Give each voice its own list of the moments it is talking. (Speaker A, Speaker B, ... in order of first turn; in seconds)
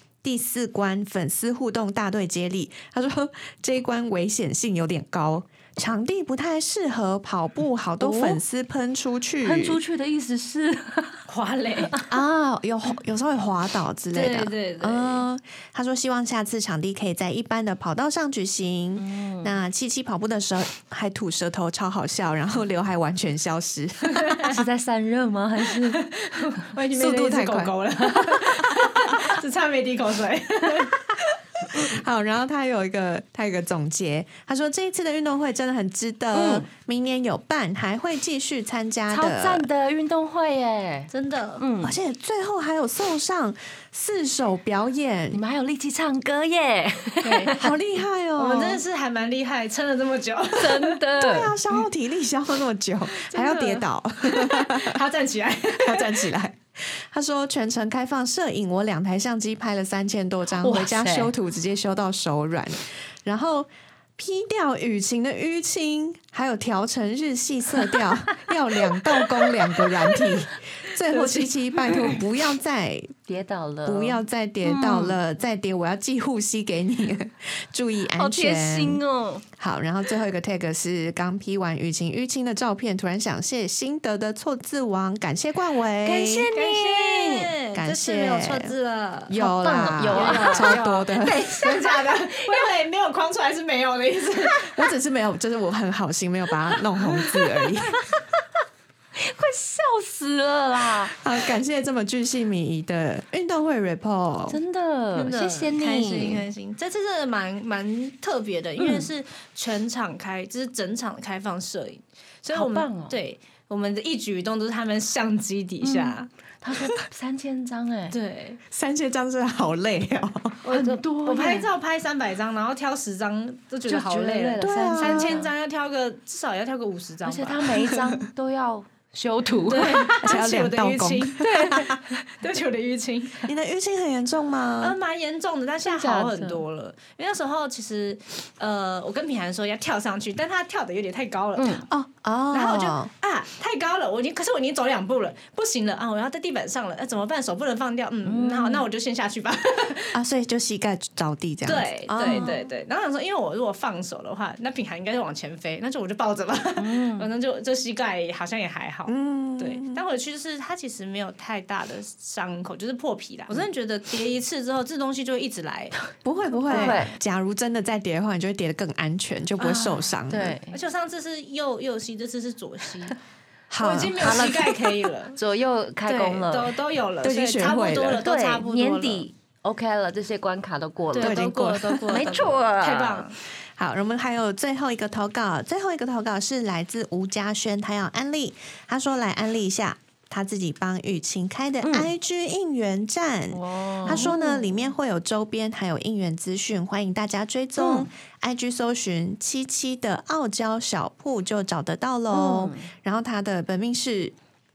Speaker A: 0.2-9.8, 12.1-24.6, 26.9-27.7, 31.7-39.6, 41.8-45.4, 47.5-48.8, 51.2-55.0, 55.8-73.1, 73.8-79.0, 79.6-86.5, 87.7-88.7, 89.3-91.4, 94.7-98.0, 101.1-104.6, 118.7-120.6, 124.6-125.4, 127.9-128.2, 130.1-132.0, 133.4-135.0, 141.9-143.1, 150.1-152.7, 159.1-160.0, 166.2-170.6, 173.7-174.6, 177.2-178.2, 181.2-182.3, 183.8-204.3
Speaker B: 8.0-8.4, 9.4-11.2, 19.0-19.5, 24.5-26.0, 36.3-36.7, 39.1-42.0, 45.3-47.7, 50.6-51.5, 61.0-61.2, 73.3-75.2, 78.1-79.4, 86.0-87.5, 89.4-92.6, 97.9-98.2, 99.2-101.2, 104.5-106.4, 108.8-109.0, 112.5-113.2, 115.8-118.1, 120.7-121.7, 123.9-125.5, 127.2-130.2, 135.8-136.6, 141.6-141.8, 148.2-148.8, 156.8-157.3, 166.7-167.1, 169.6-170.7, 174.2-176.7, 178.2-181.5, 182.1-183.3, 191.8-192.1, 193.5-194.4, 202.3-202.9
Speaker C: 11.3-11.9, 14.1-15.2, 24.1-24.5, 25.7-31.0, 41.1-41.6, 47.2-47.5, 48.4-51.0, 53.1-56.3, 60.6-61.3, 71.0-72.2, 86.5-89.3, 90.1-94.7, 105.1-116.3, 118.1-118.6, 120.6-127.7, 129.7-133.5, 134.8-141.9, 142.5-150.2, 151.6-165.9, 166.7-167.0, 170.7-173.2, 173.8-175.4, 176.1-179.2, 181.1-183.3, 194.1-194.7